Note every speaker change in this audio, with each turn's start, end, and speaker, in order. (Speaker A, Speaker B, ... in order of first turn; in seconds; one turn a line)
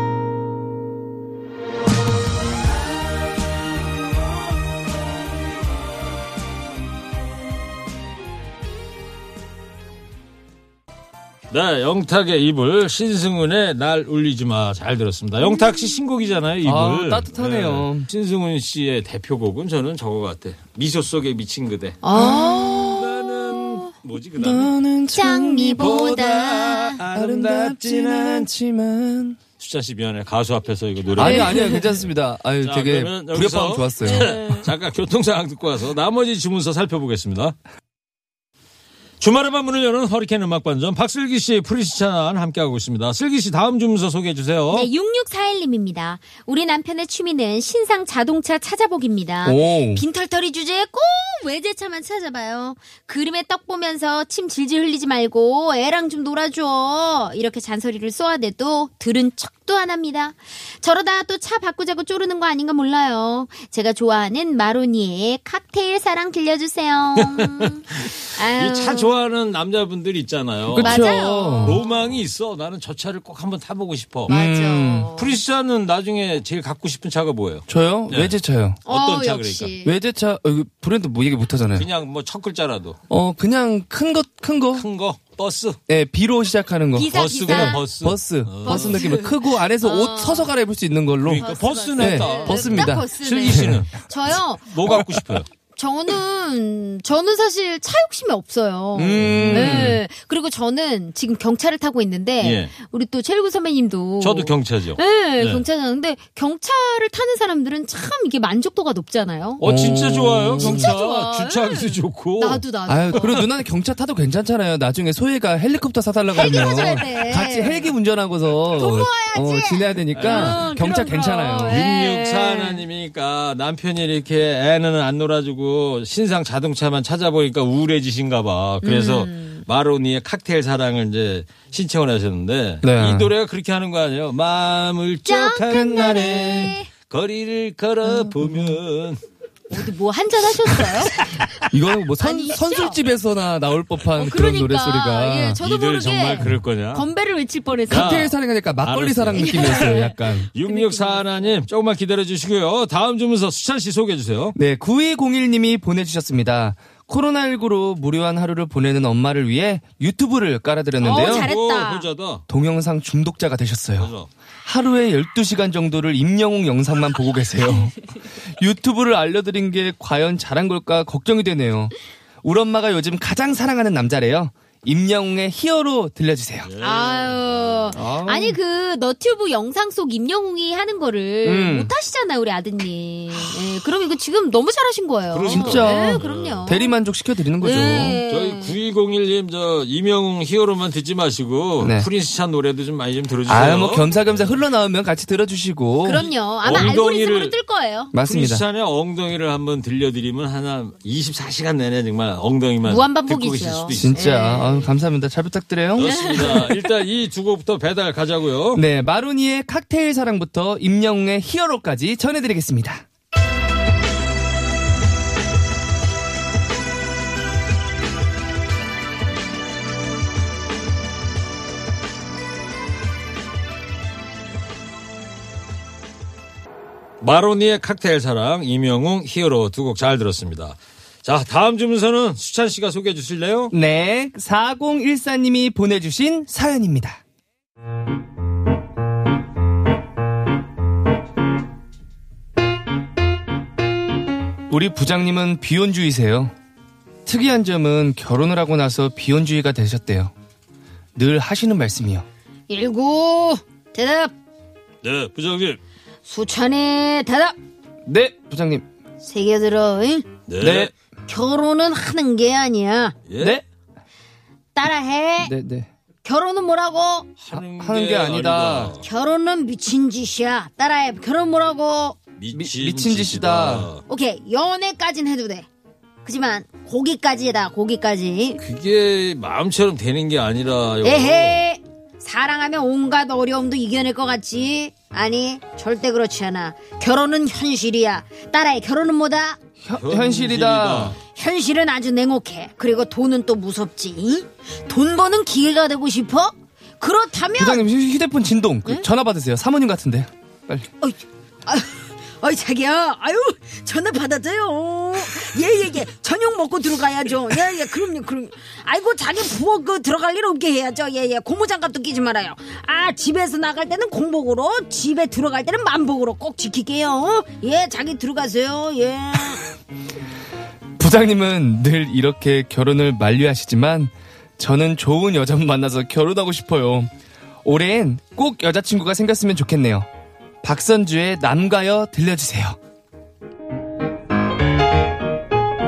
Speaker A: 11.5-22.0
Speaker B: 16.6-18.1
Speaker C: 22.0-23.9
Speaker B: 22.1-23.1
Speaker A: 22.9-24.7
Speaker B: 24.4-26.0
Speaker C: 25.1-27.0
Speaker A: 25.8-28.5
Speaker B: 27.1-29.4
Speaker A: 29.6-32.1
Speaker B: 31.2-34.4
Speaker C: 31.2-31.9
Speaker A: 32.6-37.5
Speaker C: 34.0-34.6
Speaker A: 39.2-44.9
Speaker C: 44.7-69.2
Speaker B: 49.4-50.0
Speaker A: 67.2-74.3
Speaker B: 70.7-71.8
Speaker C: 70.8-71.8
Speaker B: 74.3-75.1
Speaker C: 74.3-75.4
Speaker A: 75.1-79.8
Speaker B: 77.7-78.8
Speaker C: 78.8-80.0
Speaker B: 79.8-81.9
Speaker A: 81.7-83.0
Speaker B: 83.1-84.8
Speaker A: 84.7-85.8
Speaker B: 85.9-93.8
Speaker C: 86.9-87.8
Speaker A: 87.1-89.0
Speaker C: 88.6-90.5
Speaker A: 91.2-94.0
Speaker C: 91.3-94.7
Speaker A: 94.7-95.5
Speaker C: 95.7-109.6
Speaker B: 98.9-100.0
Speaker A: 99.2-100.0
Speaker A: 102.4-102.7
Speaker A: 104.2-105.6
Speaker A: 109.6-113.4
Speaker B: 109.6-110.9
Speaker C: 110.6-113.4
Speaker B: 112.9-121.8
Speaker C: 116.3-117.9
Speaker A: 116.4-117.0
Speaker C: 118.7-122.8
Speaker A: 120.1-120.7
Speaker A: 121.6-139.2
Speaker C: 128.8-129.6
Speaker B: 132.8-133.3
Speaker C: 135.2-136.9
Speaker B: 138.1-138.8
Speaker C: 139.7-141.2
Speaker B: 141.6-145.6
Speaker C: 142.2-143.0
Speaker C: 144.2-148.2
Speaker A: 145.6-147.1
Speaker A: 147.9-154.6
Speaker B: 147.9-150.5
Speaker C: 149.4-151.6
Speaker B: 154.6-161.5
Speaker C: 161.0-162.1
Speaker A: 161.0-162.4
Speaker B: 162.5-164.1
Speaker A: 163.9-164.3
Speaker B: 164.7-176.7
Speaker A: 176.6-178.0
Speaker C: 176.8-186.9
Speaker B: 177.9-178.6
Speaker B: 181.4-181.9
Speaker A: 185.3-186.7
Speaker B: 185.5-188.2
Speaker C: 187.6-188.8
Speaker A: 187.7-194.5
Speaker B: 191.8-192.1
Speaker B: 193.4-196.2
Speaker C: 196.0-198.1
Speaker A: 196.1-197.6
Speaker B: 198.1-198.6
Speaker A: 198.2-204.2
Speaker C: 202.8-204.9
Speaker B: 203.9-206.5
Speaker A: 205.9-208.8
Speaker C: 206.0-206.9
Speaker B: 208.7-213.0
Speaker A: 227.2-233.7
Speaker B: 233.7-237.2
Speaker B: 244.7-246.5
Speaker B: 247.2-250.3
Speaker B: 251.2-252.2
Speaker C: 252.7-254.3
Speaker A: 255.0-255.8
Speaker C: 256.2-257.6
Speaker B: 258.1-258.9
Speaker C: 259.2-260.3
Speaker A: 260.5-260.9
Speaker B: 260.6-260.9
Speaker C: 261.3-263.1
Speaker A: 263.3-263.6
Speaker B: 263.4-263.6
Speaker C: 264.7-265.5
Speaker B: 265.4-265.9
Speaker C: 266.2-267.3
Speaker A: 267.4-269.0
Speaker B: 267.5-268.9
Speaker C: 269.0-272.2
Speaker A: 272.4-274.0
Speaker B: 272.5-273.9
Speaker C: 274.1-275.7
Speaker C: 276.2-278.6
Speaker A: 278.6-281.6
Speaker C: 281.0-289.6
Speaker B: 289.8-291.2
Speaker A: 290.0-291.2
Speaker C: 291.3-297.9
Speaker B: 297.6-300.9
Speaker C: 301.0-319.6
Speaker B: 321.0-327.1
Speaker B: 327.6-330.1
Speaker B: 330.6-332.8